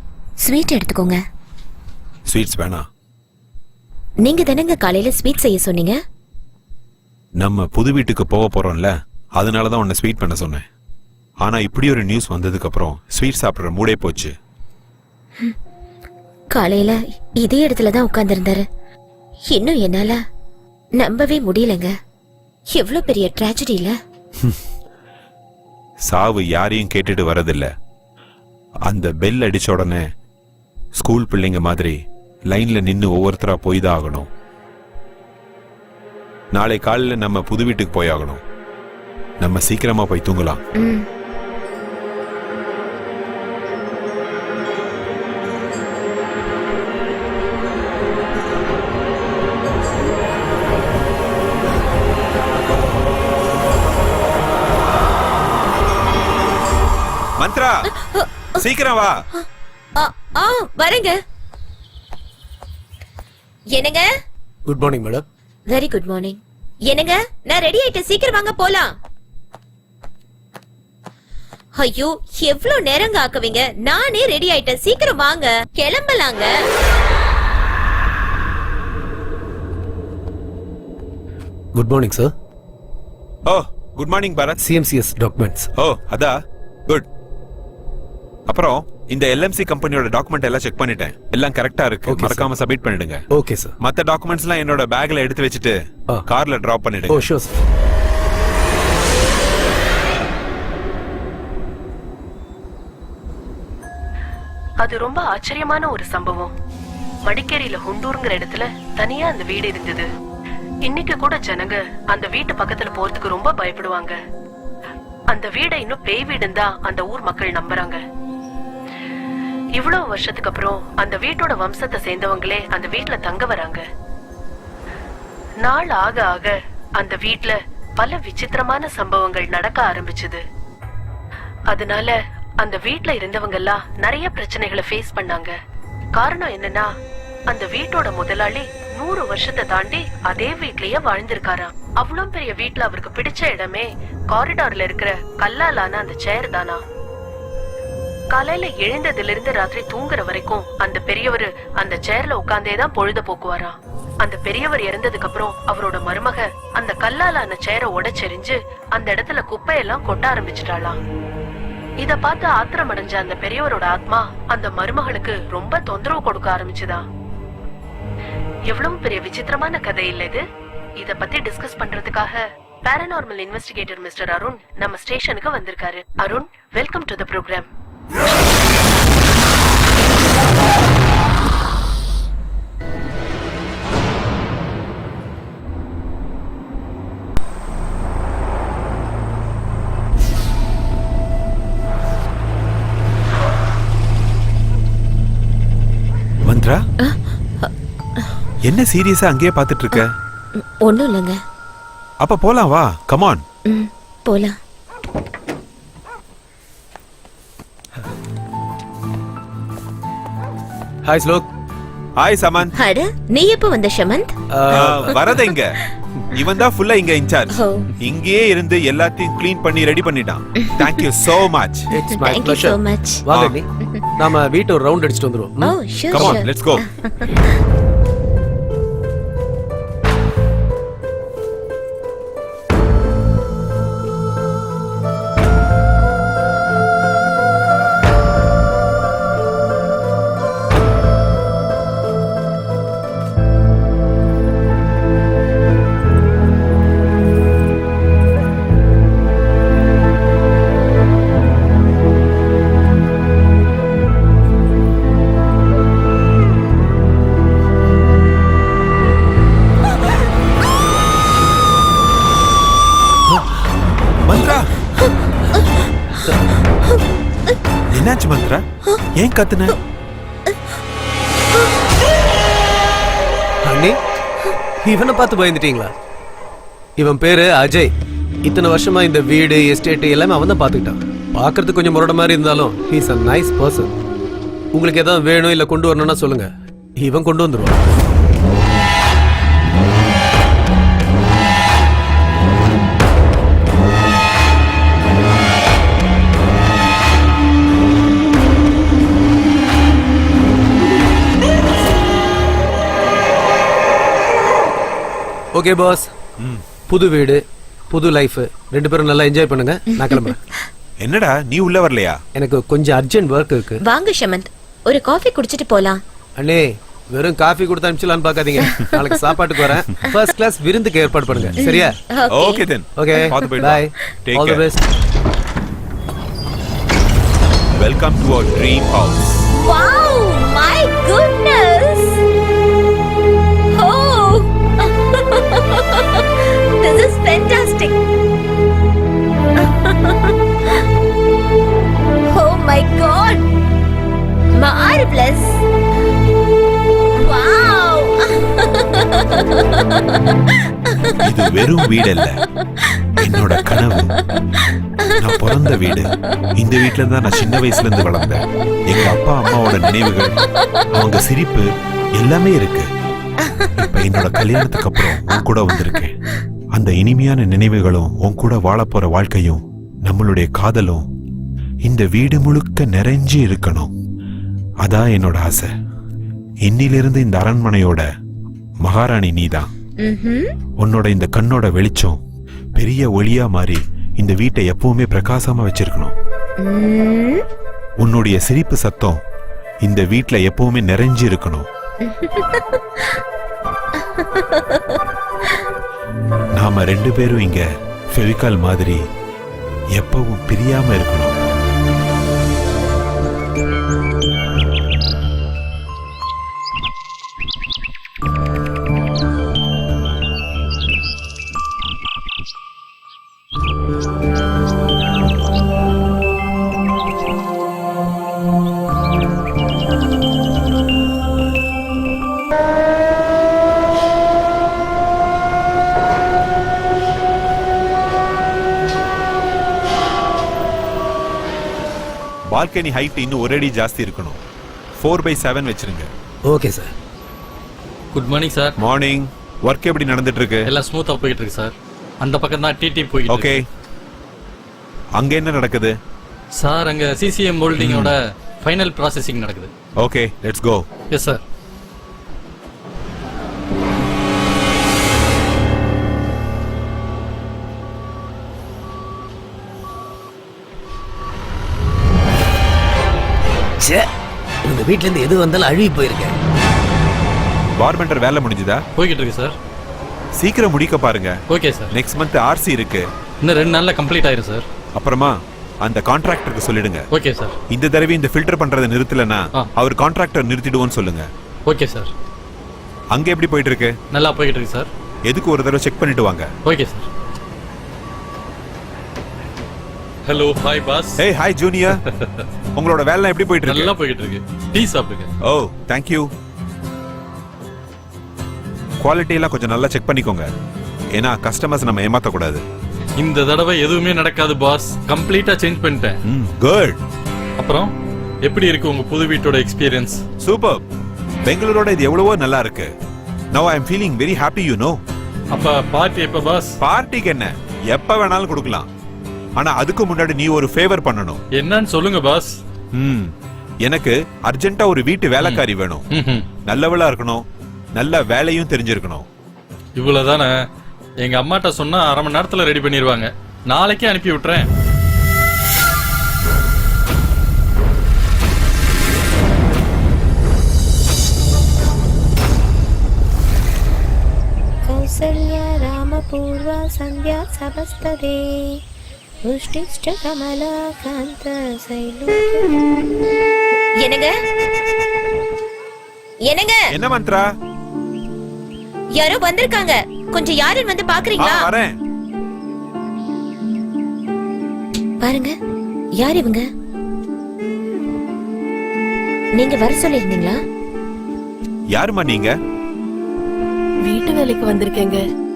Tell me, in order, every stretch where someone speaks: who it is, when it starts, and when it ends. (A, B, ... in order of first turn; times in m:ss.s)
0:00.4-0:01.2 A
0:02.3-0:02.8 B
0:04.2-0:06.0 A
0:07.4-0:10.6 B
0:11.4-0:14.3 B
0:16.5-0:18.7 A
0:19.5-0:20.2 A
0:21.0-0:21.9 A
0:22.7-0:24.0 A
0:26.1-0:27.7 B
0:28.9-0:30.0 B
0:31.0-0:34.3 B
0:36.5-0:38.4 B
0:39.4-0:40.6 B
0:40.8-0:41.0 A
0:57.4-0:57.9 B
0:57.9-0:58.6 A
0:58.6-0:59.2 B
1:00.0-1:01.2 A
1:03.7-1:04.1 A
1:04.6-1:05.2 C
1:05.7-1:09.0 A
1:11.8-1:16.6 A
1:21.7-1:22.3 C
1:23.4-1:24.6 B
1:24.6-1:25.7 C
1:25.8-1:26.4 B
1:28.5-1:33.2 B
1:32.1-1:32.5 C
1:33.3-1:33.7 C
1:33.8-1:37.2 B
1:37.1-1:37.5 C
1:44.8-1:46.5 D
1:47.3-1:50.1 D
1:50.8-1:54.2 D
1:55.3-1:58.0 D
1:59.7-2:03.8 D
2:05.6-2:10.4 D
2:11.7-2:15.5 D
2:16.2-2:16.9 D
2:17.5-2:26.8 D
2:28.3-2:41.0 D
2:42.0-2:47.0 D
2:48.7-2:50.4 D
2:51.0-2:57.7 D
3:16.4-3:16.8 B
3:17.0-3:18.3 A
3:18.6-3:20.1 B
3:20.5-3:21.4 A
3:22.2-3:23.4 B
3:23.6-3:24.6 A
3:31.0-3:31.5 C
3:32.2-3:32.7 B
3:32.8-3:34.3 A
3:34.5-3:35.2 C
3:34.7-3:35.8 B
3:34.9-3:35.3 A
3:36.3-3:41.8 B
3:37.5-3:37.9 A
3:40.6-3:40.9 A
3:41.9-3:45.8 C
3:42.1-3:43.2 A
3:43.3-3:43.6 B
3:43.8-3:44.1 A
3:45.6-3:47.6 A
3:46.1-3:46.8 B
4:24.2-4:24.7 B
4:25.5-4:25.8 A
4:27.9-4:28.6 B
4:29.1-4:29.8 B
4:33.6-4:34.0 C
4:34.8-4:35.9 C
4:37.0-4:37.9 C
4:38.4-4:43.9 C
4:44.7-4:47.8 C
5:05.5-5:06.1 C
5:06.9-5:10.4 C
5:11.0-5:12.2 B
5:12.3-5:13.8 C
5:13.8-5:16.0 A
5:16.4-5:21.9 C
5:18.7-5:19.1 A
5:21.6-5:23.7 A
5:22.3-5:24.6 B
5:23.0-5:24.8 C
5:27.7-5:29.5 B
5:29.6-5:32.2 A
5:33.7-5:38.0 A
5:39.6-5:40.4 A
5:42.3-5:43.5 A
5:44.5-5:45.6 A
5:47.2-5:50.0 A
5:50.7-5:51.2 A
5:51.2-5:52.4 B
5:52.6-5:53.8 A
5:53.2-5:54.1 B
5:54.6-5:55.7 A
5:55.2-6:00.4 B
5:59.0-6:00.7 A
6:00.9-6:02.9 B
6:03.4-6:03.9 A
6:03.8-6:06.2 B
6:05.0-6:06.0 A
6:06.7-6:11.1 B
6:11.8-6:13.9 B
6:14.8-6:15.7 B
6:16.6-6:18.0 B
6:18.8-6:19.7 B
6:20.0-6:20.5 A
6:20.8-6:22.2 B
6:22.8-6:26.1 B
6:26.6-6:27.4 A
6:28.0-6:29.2 B
6:29.8-6:31.7 B
6:32.0-6:33.2 A
6:34.0-6:35.0 A
6:36.5-6:39.0 B
6:40.0-6:41.4 B
7:12.5-7:14.4 B
7:15.0-7:16.1 B
7:16.4-7:16.9 C
7:18.1-7:18.8 E
7:18.8-7:20.7 B
7:20.7-7:23.6 E
7:23.3-7:23.6 B
7:25.2-7:25.9 B
7:26.6-7:29.7 E
7:27.7-7:28.1 B
7:30.0-7:30.8 B
7:31.1-7:31.4 E
7:43.8-7:44.1 C
7:44.6-7:46.4 C
7:47.8-7:48.8 B
7:49.0-7:49.6 E
7:50.4-7:51.4 B
7:51.5-7:51.9 E
7:51.9-7:53.1 B
7:53.4-7:54.6 E
7:54.9-7:57.0 B
7:57.1-7:57.5 E
7:57.7-8:01.3 B
8:01.6-8:02.1 E
8:03.1-8:04.0 B
8:04.1-8:04.9 E
8:05.2-8:06.5 B
8:06.6-8:07.1 E
8:10.2-8:11.2 E
8:11.2-8:12.0 B
8:11.9-8:12.4 E
8:12.8-8:13.9 B
8:13.6-8:15.3 E
8:15.4-8:16.3 B
8:19.0-8:20.5 B
8:21.1-8:22.6 B
8:23.2-8:26.2 E
8:26.3-8:27.0 B
8:27.6-8:27.9 E
8:28.4-8:30.2 E
8:30.4-8:30.8 B
8:31.4-8:32.9 B
8:33.5-8:35.0 B
8:35.5-8:36.8 E
8:36.8-8:38.9 B
8:39.6-8:41.4 B
8:41.5-8:42.6 E
8:42.9-8:43.3 B
8:43.8-8:46.0 B
8:45.4-8:46.4 E
8:46.7-8:47.4 B
8:48.0-8:49.2 B
8:50.0-8:50.6 E
8:51.2-8:54.7 E
9:04.8-9:08.8 A
9:09.4-9:12.7 A
9:14.0-9:14.3 A
9:16.4-9:16.9 A
9:16.9-9:17.5 B
9:19.1-9:21.7 A
9:21.4-9:21.9 B
9:25.2-9:25.5 A
9:26.2-9:26.6 A
9:29.6-9:30.6 A
9:31.9-9:32.5 B
9:34.0-9:35.2 D